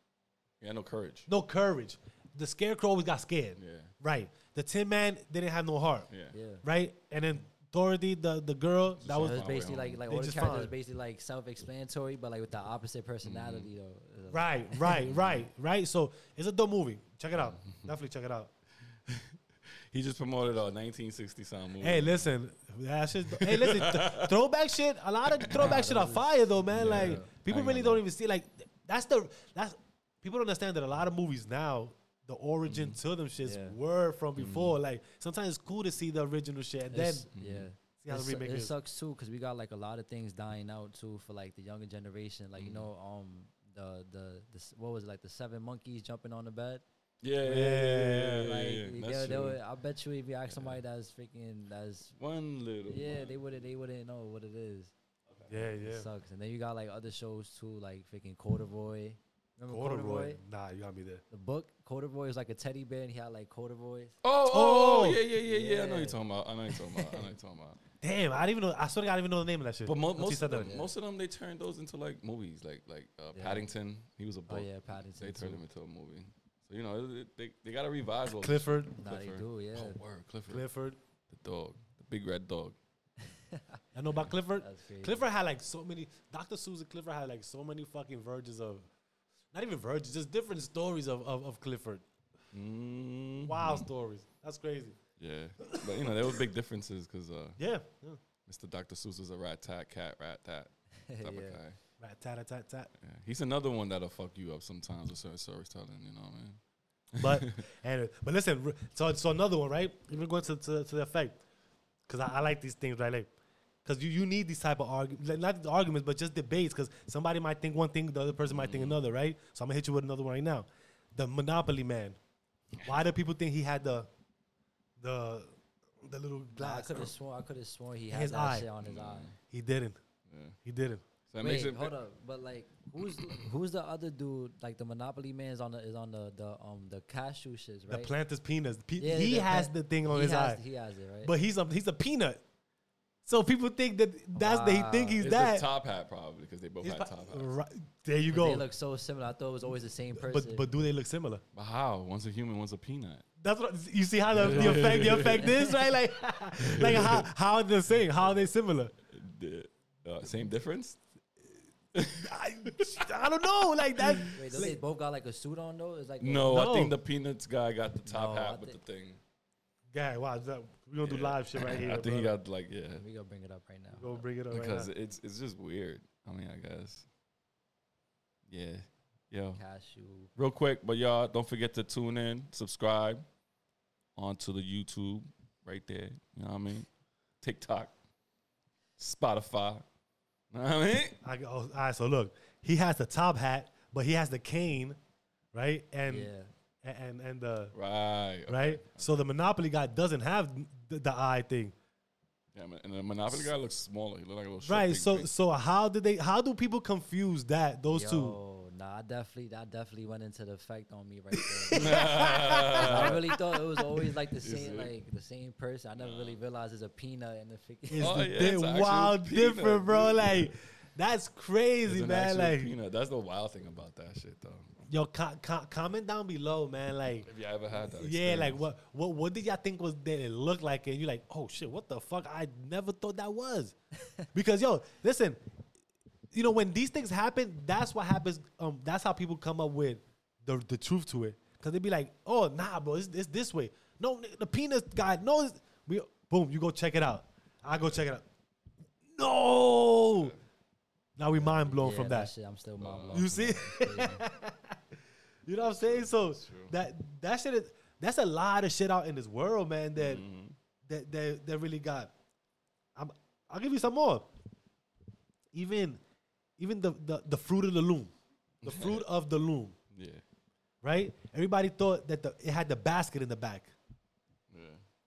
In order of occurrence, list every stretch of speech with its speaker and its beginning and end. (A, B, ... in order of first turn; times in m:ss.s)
0:00.6-0:01.3 A
0:01.3-0:06.1 B
0:03.6-0:03.9 A
0:06.1-0:06.4 A
0:06.3-0:06.6 C
0:06.6-0:09.5 B
0:09.0-0:10.0 A
0:09.2-0:14.4 C
0:10.1-0:10.7 B
0:13.2-0:13.7 A
0:14.3-0:18.5 B
0:15.1-0:15.5 A
0:17.3-0:17.9 A
0:19.1-0:19.4 A
0:19.9-0:22.3 A
0:21.8-0:37.3 B
0:23.3-0:24.3 A
0:25.3-0:25.8 A
0:25.5-0:27.3 C
0:26.7-0:28.0 A
0:32.7-0:33.0 A
0:33.4-0:33.8 C
0:34.4-0:34.8 A
0:36.9-0:46.8 C
0:37.4-0:37.7 A
0:38.0-0:38.7 B
0:42.6-0:42.9 A
0:47.2-0:49.6 A
0:47.4-0:48.6 B
0:48.4-0:52.1 C
0:50.5-0:50.8 A
0:52.2-0:53.4 A
0:52.9-0:54.9 C
0:55.5-0:56.1 B
0:55.8-1:00.4 C
0:59.7-1:01.2 B
1:01.3-1:04.2 C
1:04.2-1:07.8 A
1:04.5-1:05.2 B
1:05.4-1:06.2 C
1:06.7-1:07.2 C
1:08.0-1:10.8 B
1:09.9-1:20.6 A
1:10.4-1:10.9 C
1:13.3-1:13.6 C
1:14.5-1:15.6 C
1:18.4-1:19.0 B
1:19.0-1:20.0 C
1:20.5-1:21.0 B
1:21.3-1:22.8 A
1:23.4-1:23.8 C
1:24.0-1:28.9 B
1:24.6-1:25.2 C
1:29.5-1:32.0 B
1:32.5-1:33.9 A
1:33.4-1:35.0 B
1:35.2-1:37.6 A
1:35.6-1:36.4 B
1:37.6-1:38.2 B
1:38.5-1:41.8 A
1:41.1-1:41.6 C
1:42.0-1:42.9 B
1:43.0-1:46.6 A
1:47.1-1:47.6 A
1:47.2-1:51.4 B
1:52.1-1:53.3 B
1:53.8-2:02.2 B
1:58.5-1:59.0 A
2:02.8-2:03.0 A
2:02.8-2:04.1 B
2:05.0-2:07.1 B
2:06.6-2:09.3 C
2:08.1-2:08.7 B
2:08.8-2:09.4 A
2:09.4-2:10.0 B
2:10.3-2:10.6 A
2:10.6-2:11.0 B
2:11.3-2:11.9 A
2:11.4-2:18.1 C
2:13.0-2:13.4 A
2:17.9-2:20.6 B
2:19.0-2:21.3 C
2:21.2-2:22.4 B
2:23.3-2:25.7 B
2:24.4-2:25.2 C
2:25.2-2:27.5 A
2:26.8-2:28.6 B
2:28.3-2:30.6 C
2:30.2-2:31.4 B
2:31.5-2:33.2 A
2:33.4-2:38.9 B
2:34.3-2:35.6 A
2:34.4-2:35.8 C
2:36.6-2:37.3 A
2:39.1-2:41.0 A
2:41.9-2:43.0 A
2:42.2-2:44.8 B
2:44.4-2:46.7 C
2:46.2-2:49.2 A
2:46.5-2:47.0 B
2:48.1-2:48.8 C
2:49.9-2:52.4 B
2:51.0-2:53.0 A
2:53.0-2:54.2 C
2:54.0-2:54.9 B
2:54.5-2:57.1 A
2:58.5-2:59.6 A
2:59.6-3:00.3 C
3:00.4-3:03.2 A
3:04.2-3:06.9 A
3:07.4-3:07.9 A
3:09.0-3:09.8 A
3:10.5-3:11.2 A
3:11.2-3:15.0 B
3:15.5-3:16.3 B
3:16.1-3:16.5 C
3:16.8-3:17.7 B
3:17.7-3:19.2 A
3:18.5-3:21.7 B
3:22.5-3:25.3 A
3:24.6-3:28.4 B
3:27.9-3:32.1 C
3:31.5-3:33.4 B
3:31.7-3:33.2 A
3:32.8-3:38.1 C
3:34.4-3:34.9 A
3:36.0-3:36.4 A
3:37.9-3:42.7 B
3:38.0-3:40.5 A
3:41.8-3:44.7 A
3:44.9-3:47.3 B
3:47.2-3:48.6 A
3:47.9-3:53.8 B
3:54.3-3:55.4 B
3:56.3-4:08.2 B
4:09.1-4:10.3 B
4:10.1-4:10.4 A
4:11.2-4:12.3 B
4:11.3-4:14.2 C
4:12.8-4:13.3 A
4:13.1-4:14.8 B
4:15.5-4:20.2 B
4:15.6-4:16.8 A
4:20.0-4:20.6 A
4:20.9-4:22.1 B
4:23.0-4:24.3 B
4:25.5-4:26.0 B
4:26.6-4:28.1 B
4:28.6-4:29.1 A
4:28.6-4:29.8 B
4:29.9-4:30.2 A
4:30.8-4:33.7 B
4:34.5-4:34.8 A